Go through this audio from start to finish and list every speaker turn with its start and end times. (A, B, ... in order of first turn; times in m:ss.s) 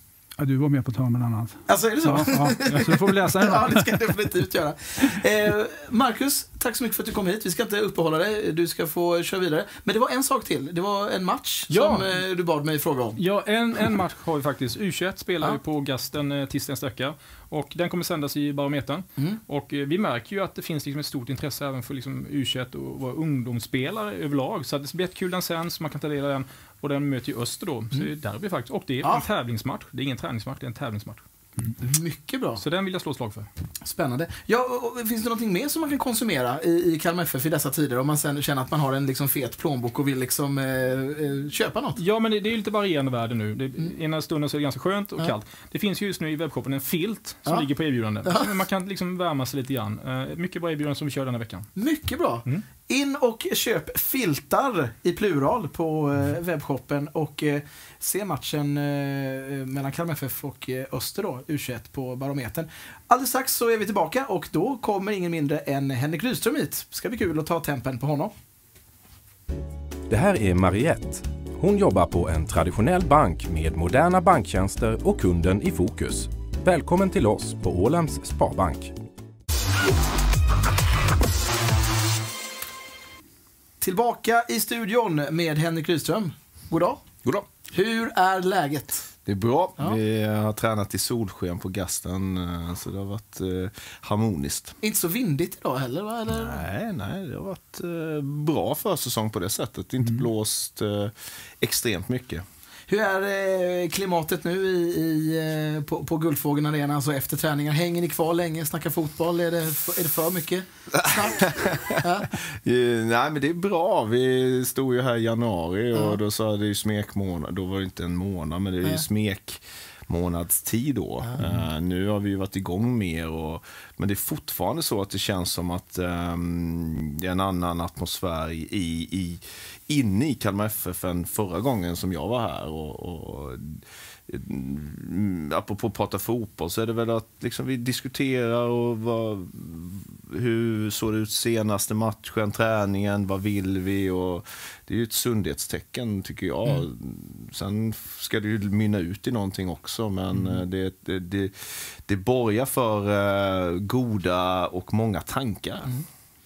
0:00.4-0:03.9 A
0:01.7-0:13.2 B
0:11.7-0:12.1 C
0:13.2-0:31.2 C
0:31.8-0:32.6 B
0:32.6-0:33.5 C
0:33.8-0:42.0 B
0:42.0-0:51.7 C
0:48.2-0:48.5 B
0:51.8-1:08.3 B
1:10.1-1:18.9 D
1:23.8-1:27.0 B
1:27.7-1:29.1 B
1:29.2-1:34.8 E
1:34.8-1:36.6 B
1:36.3-1:42.4 E
1:42.9-1:52.3 B
1:50.9-2:35.9 E